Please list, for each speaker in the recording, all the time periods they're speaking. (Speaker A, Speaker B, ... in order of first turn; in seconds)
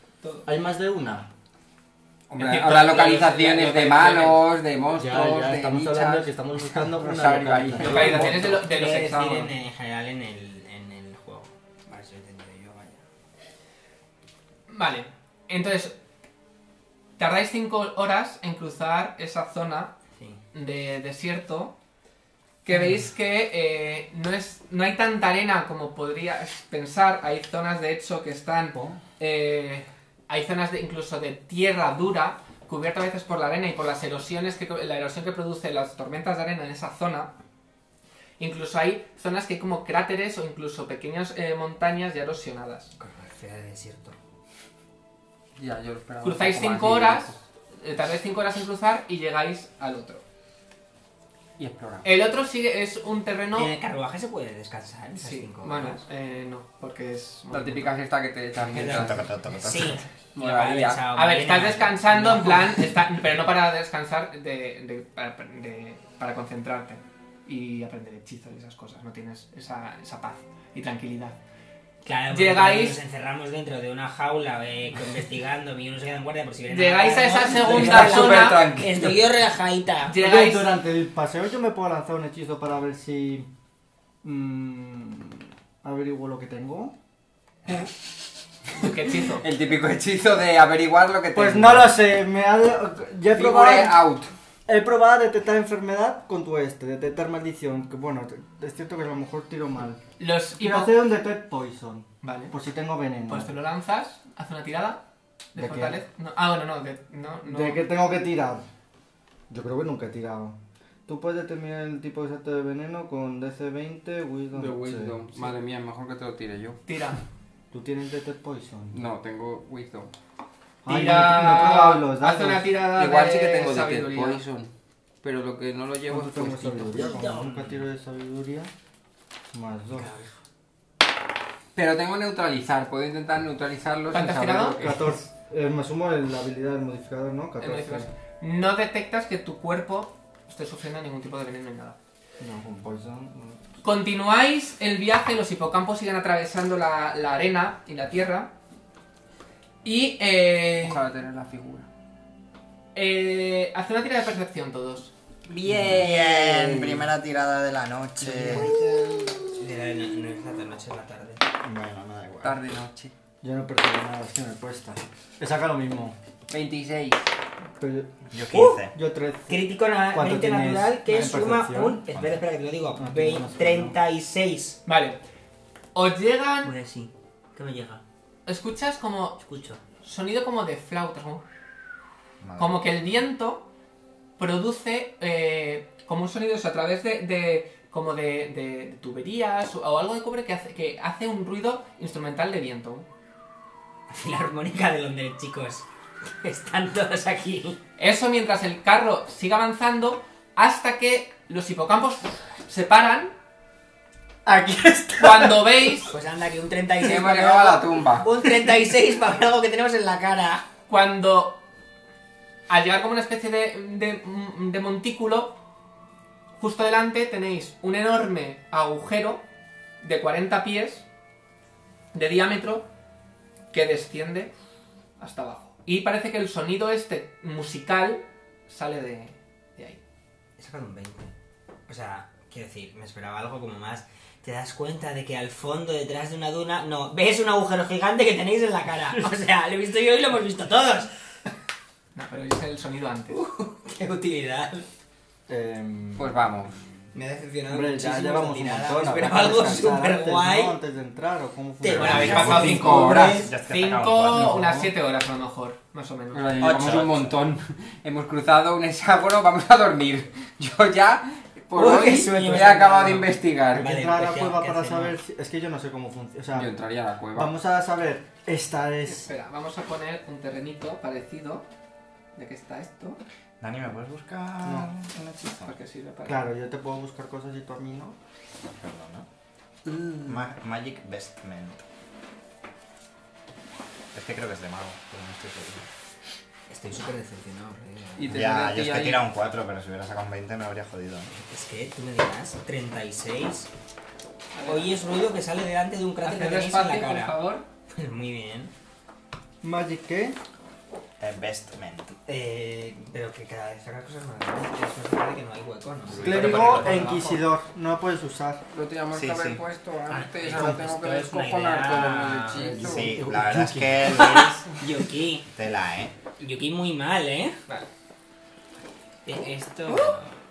Speaker A: 0.5-1.3, 4.9-8.6, 28.7-29.0, 80.2-83.5, 84.2-86.9, 91.3-94.0, 94.7-100.0, 100.5-103.5, 105.5-106.0, 107.4-108.6, 109.5-115.2, 117.7-119.0, 120.8-122.7, 126.1-128.7, 129.5-130.1, 134.8-138.1, 142.4-143.7, 163.4-166.2, 167.8-172.0, 172.9-174.0, 204.4-205.9, 245.5-246.4, 247.7-252.4, 263.7-266.7, 267.3-269.3, 274.6-274.9, 276.2-278.2, 299.6-300.4, 306.2-308.6, 312.6-314.4
Speaker B: 2.3-8.5, 45.6-47.4, 51.6-52.1, 57.5-59.3, 60.3-61.0, 77.5-79.3, 88.8-92.0, 93.3-94.3, 114.5-116.8, 118.9-120.1, 122.4-124.7, 125.2-127.2, 131.7-135.1, 150.8-151.9, 155.5-157.1, 162.4-163.1, 166.5-167.2, 207.0-208.3, 246.2-246.8, 252.3-253.5, 256.3-263.9, 266.5-267.5, 288.2-289.3, 308.7-313.2
Speaker C: 2.3-4.4, 7.8-9.5, 14.7-15.9, 17.2-19.9, 20.5-21.8, 22.6-37.3, 38.4-42.9, 46.2-50.2, 52.0-53.7, 55.1-57.9, 61.1-71.4, 72.3-73.0, 76.7-78.7, 80.1-80.7, 88.7-89.5, 100.2-100.9, 102.2-102.5, 103.3-105.0, 105.5-107.8, 116.8-117.2, 120.9-124.4, 134.1-134.9, 137.6-142.0, 143.8-148.5, 149.8-151.0, 152.9-155.1, 174.8-175.2, 175.9-176.7, 178.4-179.4, 179.9-181.4, 182.6-183.7, 184.4-193.1, 198.0-203.3, 205.2-206.1, 210.9-211.6, 212.7-215.6, 216.6-219.4, 220.0-221.1, 222.1-222.9, 223.7-224.5, 225.2-230.0, 242.1-243.4, 251.9-257.0, 269.1-271.7, 272.3-273.2, 275.5-276.5, 294.5-294.9, 296.2-297.7, 306.2-307.4
Speaker D: 8.4-13.0, 20.1-20.4, 43.0-44.1, 53.5-56.0, 58.6-62.9, 72.0-80.2, 126.9-127.8, 129.9-130.3, 158.2-161.4, 168.5-168.8, 169.5-174.8, 176.6-178.0, 179.4-179.8, 194.1-195.8, 196.4-197.8, 206.1-210.6, 230.6-231.3, 231.9-241.1, 243.3-244.9, 247.1-250.8, 251.8-253.5, 261.7-265.2, 286.7-288.3, 291.4-293.7, 294.6-297.4, 297.9-298.7, 302.3-307.0, 310.1-312.7, 314.0-315.5, 316.4-317.8, 319.2-320.4
Speaker E: 58.8-60.0, 155.7-158.7, 161.6-162.6, 168.3-168.9, 172.1-172.4, 182.4-183.0, 251.9-254.8, 256.6-257.5, 273.6-275.8, 278.8-279.3, 280.2-281.8, 284.1-285.9, 288.2-291.3, 301.2-302.1, 306.1-306.9, 309.1-309.6, 312.8-314.7, 315.5-316.1